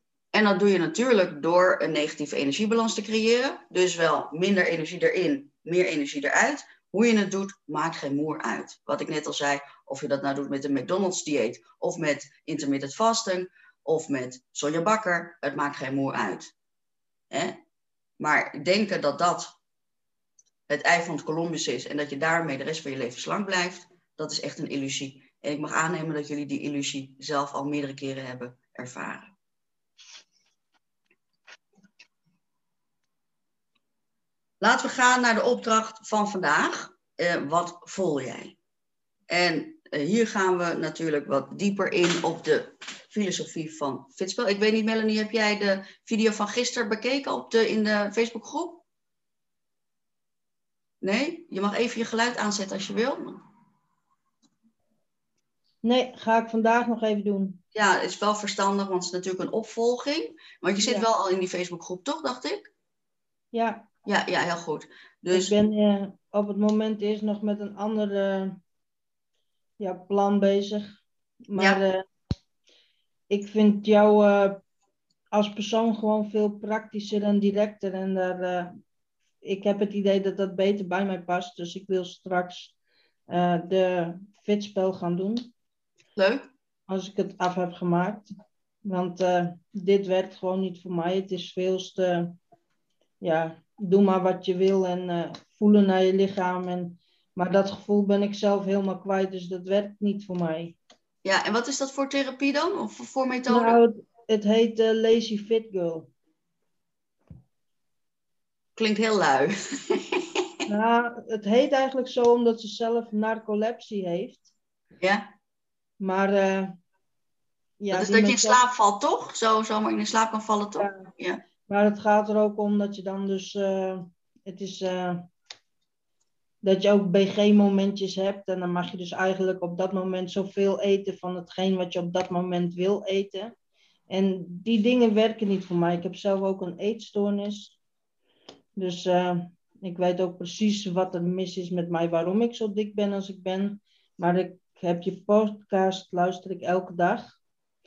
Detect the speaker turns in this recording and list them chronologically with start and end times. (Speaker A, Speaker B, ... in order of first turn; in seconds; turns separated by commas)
Speaker A: 0.3-16.5, Speaker A: 17.3-17.6, Speaker A: 18.2-19.6, Speaker A: 20.7-29.3, Speaker A: 34.6-38.6, Speaker A: 39.3-48.8, Speaker A: 51.0-53.4, Speaker B: 55.8-57.6, Speaker A: 57.7-62.7, Speaker B: 60.8-61.1, Speaker B: 63.5-63.9, Speaker A: 64.0-65.6, Speaker B: 65.3-68.6, Speaker B: 69.8-72.0, Speaker A: 71.6-71.8, Speaker B: 73.3-74.6, Speaker B: 75.3-78.7, Speaker B: 79.4-82.7, Speaker B: 83.3-85.5, Speaker A: 86.2-86.5, Speaker B: 86.9-88.3, Speaker B: 88.8-92.4, Speaker B: 93.2-100.8, Speaker A: 101.2-103.8, Speaker B: 103.5-106.1, Speaker A: 108.8-110.4, Speaker B: 110.7-114.5, Speaker A: 115.0-115.3, Speaker B: 116.0-116.8, Speaker B: 117.8-118.6, Speaker A: 117.9-121.4, Speaker B: 120.8-121.1, Speaker B: 121.7-125.3, Speaker B: 126.6-133.5, Speaker B: 134.1-137.8, Speaker B: 138.8-147.3